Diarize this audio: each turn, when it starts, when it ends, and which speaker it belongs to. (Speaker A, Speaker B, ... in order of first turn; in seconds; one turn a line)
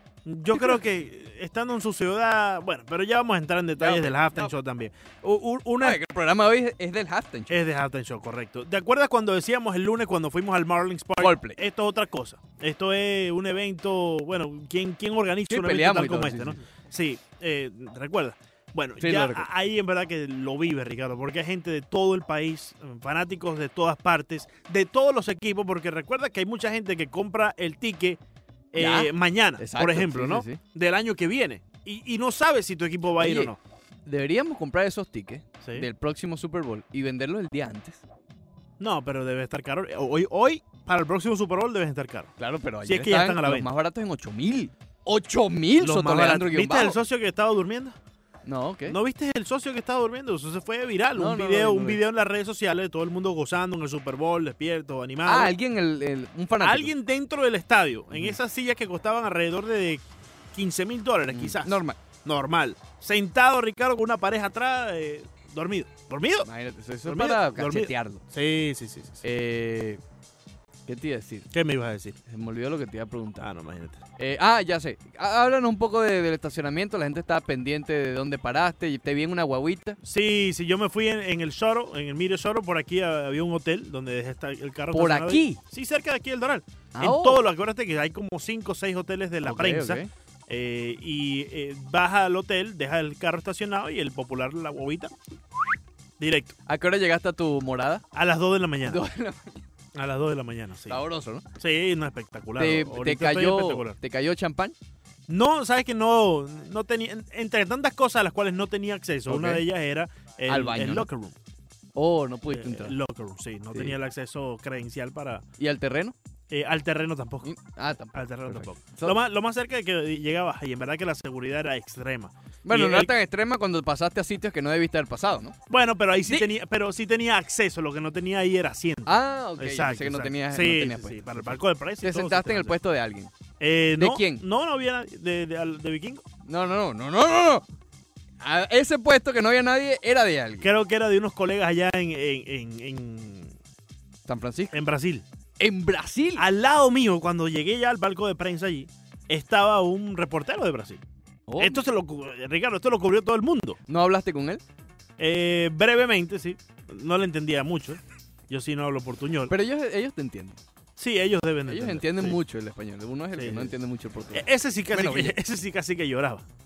Speaker A: 0.2-6.0
Speaker B: 3.8-4.5
Speaker B: 5.8-7.6
Speaker A: 7.5-28.2
Speaker B: 11.2-11.6
Speaker B: 15.5-16.6
Speaker B: 19.0-19.5
Speaker A: 28.7-33.6
Speaker B: 28.8-30.6
Speaker B: 33.2-33.5
Speaker B: 34.0-38.0
Speaker A: 35.6-35.9
Speaker A: 38.8-42.3
Speaker B: 42.4-47.0
Speaker A: 42.8-43.7
Speaker A: 45.8-48.0
Speaker B: 48.5-49.0
Speaker A: 48.9-55.5
Speaker B: 51.2-52.0
Speaker B: 55.3-56.9
Speaker A: 56.6-66.5
Speaker B: 61.3-62.0
Speaker B: 66.4-68.2
Speaker A: 67.0-69.2
Speaker B: 69.2-70.0
Speaker B: 70.9-71.5
Speaker A: 71.5-72.2
Speaker B: 72.3-73.5
Speaker A: 73.4-74.0
Speaker B: 74.2-80.0
Speaker A: 80.0-95.1
Speaker B: 84.9-85.6
Speaker B: 87.0-87.4
Speaker B: 89.4-90.1
Speaker A: 96.2-96.6
Speaker B: 96.7-98.0
Speaker A: 98.1-99.0
Speaker B: 98.8-99.6
Speaker A: 100.0-101.0
Speaker B: 100.9-101.5
Speaker A: 101.5-104.0
Speaker B: 102.6-104.8
Speaker A: 105.3-111.4
Speaker B: 109.3-109.7
Speaker B: 110.5-111.1
Speaker B: 112.0-113.0
Speaker A: 112.5-115.4
Speaker B: 115.6-116.2
Speaker A: 116.5-117.5
Speaker B: 117.4-119.2
Speaker A: 118.1-123.1
Speaker B: 122.6-125.6
Speaker A: 125.7-132.8
Speaker B: 129.1-133.3
Speaker A: 133.6-136.2
Speaker B: 134.0-134.4
Speaker B: 136.5-137.7
Speaker B: 138.4-140.7
Speaker A: 140.6-143.5
Speaker B: 144.3-144.8
Speaker A: 144.7-145.2
Speaker B: 145.6-146.5
Speaker A: 146.4-151.0
Speaker B: 151.5-151.8
Speaker A: 151.6-153.8
Speaker B: 153.9-154.6
Speaker A: 155.2-159.5
Speaker B: 159.5-160.6
Speaker A: 161.0-162.4
Speaker B: 161.7-165.4
Speaker A: 163.4-163.7
Speaker A: 164.3-166.4